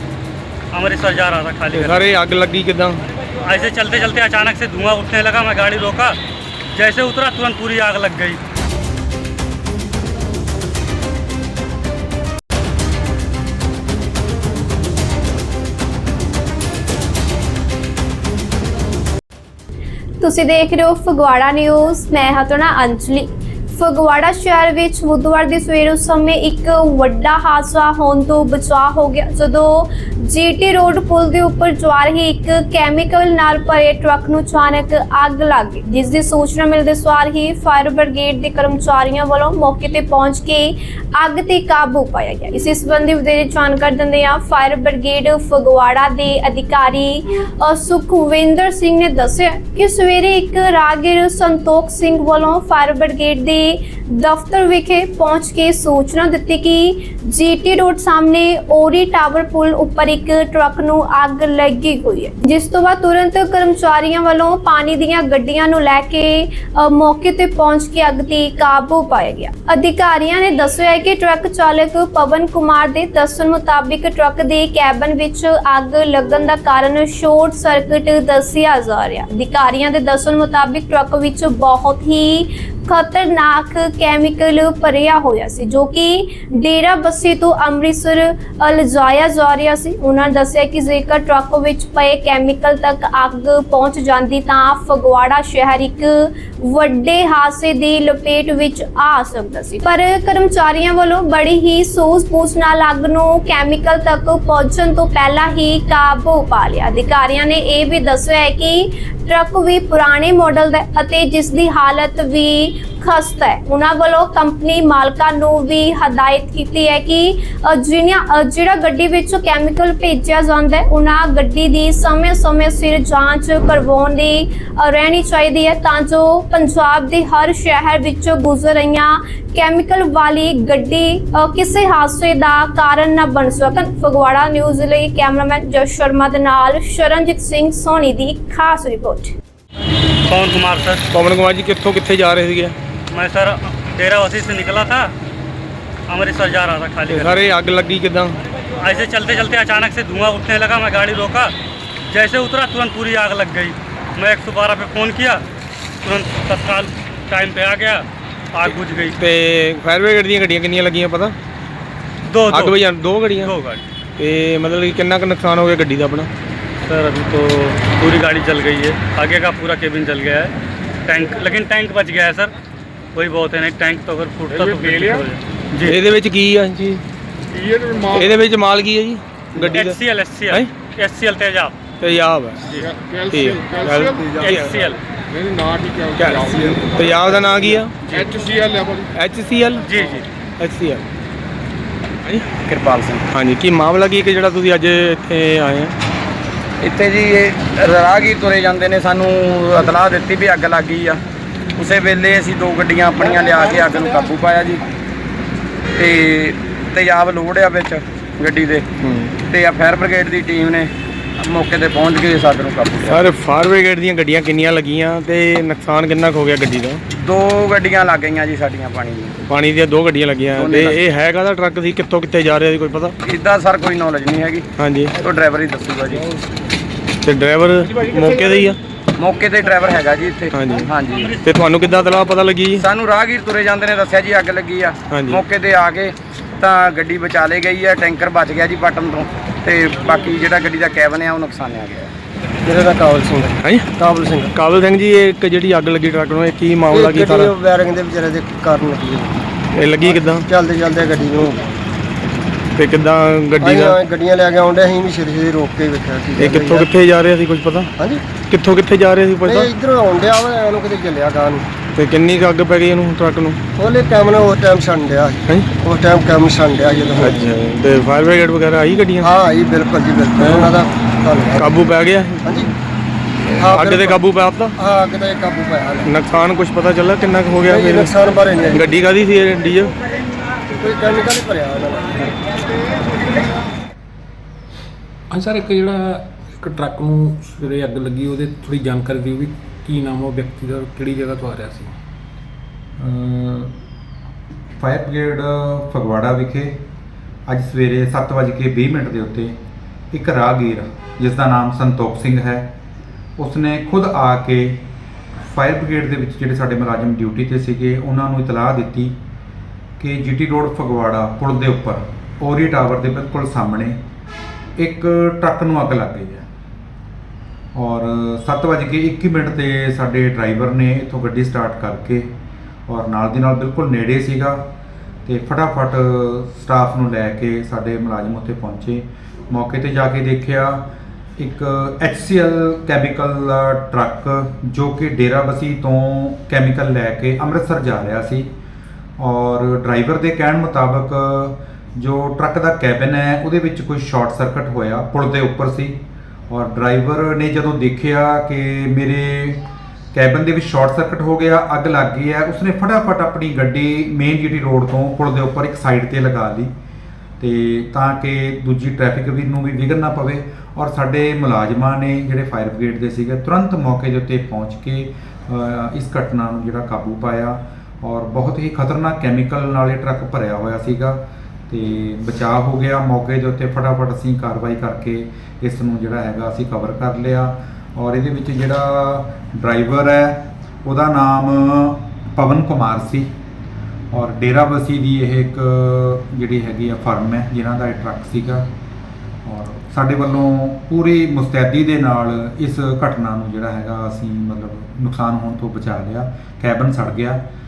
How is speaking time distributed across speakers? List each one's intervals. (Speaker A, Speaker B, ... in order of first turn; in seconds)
Speaker A: 0.7-2.1, 3.4-6.2, 6.7-8.4, 140.3-141.0, 143.1-145.1, 146.1-147.4, 148.8-151.5, 152.1-155.4, 156.0-159.2, 162.3-162.8, 163.4-163.8, 166.9-170.5, 171.1-172.5, 173.2-176.0, 179.6-181.8, 184.3-185.0, 189.8-190.2
Speaker B: 1.7-3.0, 141.1-142.8, 147.1-148.4, 159.2-161.3, 162.5-163.5, 164.2-166.3, 175.8-177.0, 178.2-180.0, 182.0-182.7, 183.3-184.8, 186.2-188.3, 189.1-189.9, 190.6-191.0, 193.3-195.9, 209.0-209.3, 213.1-217.0, 219.5-223.1, 224.8-225.2, 227.2-228.8, 230.5-230.9, 231.4-232.8, 235.1-235.4, 243.6-243.9, 244.5-247.5, 249.7-250.4, 252.8-254.0, 256.4-259.7, 262.0-263.6, 267.2-269.3, 270.4-270.8, 271.6-272.6, 273.6-274.7, 276.0-279.9
Speaker C: 20.2-139.3
Speaker D: 174.6-175.2, 177.8-178.3, 183.0-184.2, 185.4-186.9, 188.2-189.0
Speaker E: 192.6-193.3, 196.8-201.2, 201.8-204.8, 205.9-208.9, 209.4-213.3, 217.1-219.4, 220.5-221.0, 223.2-226.3, 229.2-231.3, 232.7-242.1
Speaker F: 242.7-244.5, 246.9-249.4, 250.0-251.6, 253.6-256.9, 258.0-258.2, 259.4-261.7, 263.8-267.6, 269.2-271.8, 272.4-272.7, 273.6-274.2, 274.8-276.2, 277.6-278.8, 280.8-282.4
Speaker G: 285.3-291.9
Speaker H: 293.0-293.7, 294.8-296.8, 297.5-299.6, 300.1-302.7, 303.4-304.8, 305.4-309.1, 310.0-314.0, 314.8-316.4, 317.7-322.3, 322.9-324.6, 325.2-330.8, 331.4-338.5, 339.2-349.6, 350.1-356.7, 357.4-383.3, 384.1-388.6, 389.4-397.4